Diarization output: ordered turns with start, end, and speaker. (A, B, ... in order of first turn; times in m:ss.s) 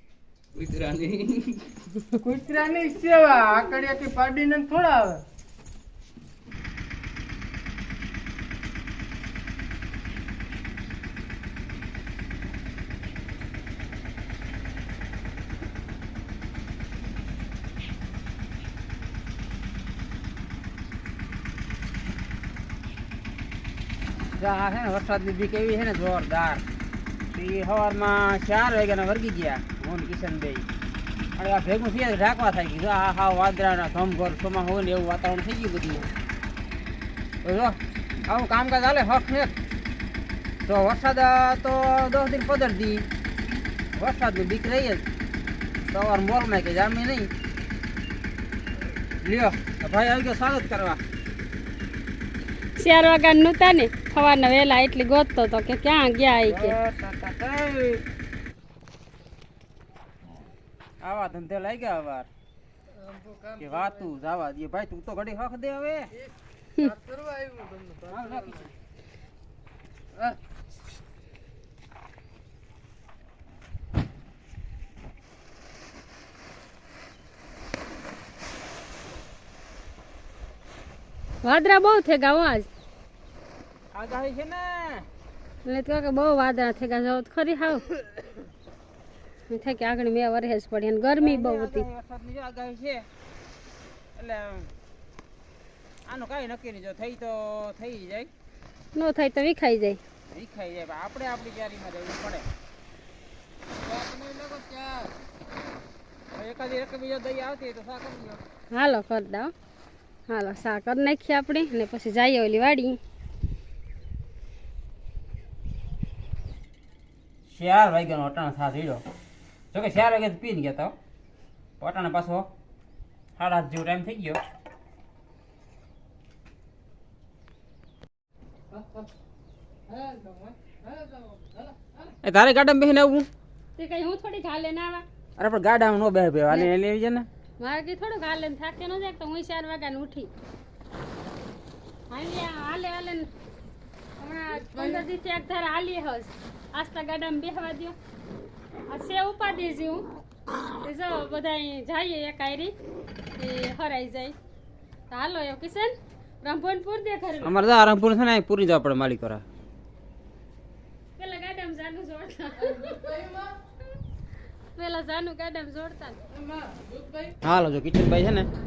0:00.6-0:01.7 A
0:02.3-0:05.2 A
0:24.4-0:26.6 B
0:27.3-0:30.6 B
0:31.4-0:36.1 B
0:37.4-0:39.6 B
0:40.7-0:43.0 B
0:44.0-0:45.0 B
0:45.9-0:47.3 B
0:49.2-0:51.0 B
0:52.8-0:56.8 C
0:56.5-0:58.0 B
1:01.0-1:02.3 B
1:03.5-1:06.1 B
1:07.1-1:08.1 A
1:08.0-1:08.8 B
1:21.4-1:22.7 C
1:23.9-1:25.1 B
1:25.6-1:27.9 C
1:29.5-1:31.9 C
1:31.2-1:33.1 B
1:34.2-1:34.7 B
1:36.1-1:38.3 B
1:39.0-1:40.0 C
1:40.3-1:42.5 B
1:43.8-1:45.1 B
1:46.3-1:48.4 B
1:48.7-1:49.5 C
1:50.3-1:53.0 C
1:57.5-1:59.0 B
1:59.7-2:00.9 B
2:01.8-2:02.5 B
2:03.4-2:04.4 B
2:10.0-2:10.5 A
2:12.2-2:13.3 B
2:13.8-2:15.0 C
2:15.4-2:17.3 B
2:17.6-2:20.3 C
2:22.1-2:23.3 C
2:24.2-2:28.0 C
2:28.9-2:30.0 C
2:30.8-2:32.7 C
2:33.4-2:34.4 C
2:35.1-2:37.7 C
2:37.4-2:39.4 B
2:41.2-2:43.5 C
2:44.8-2:46.2 C
2:47.4-2:48.5 B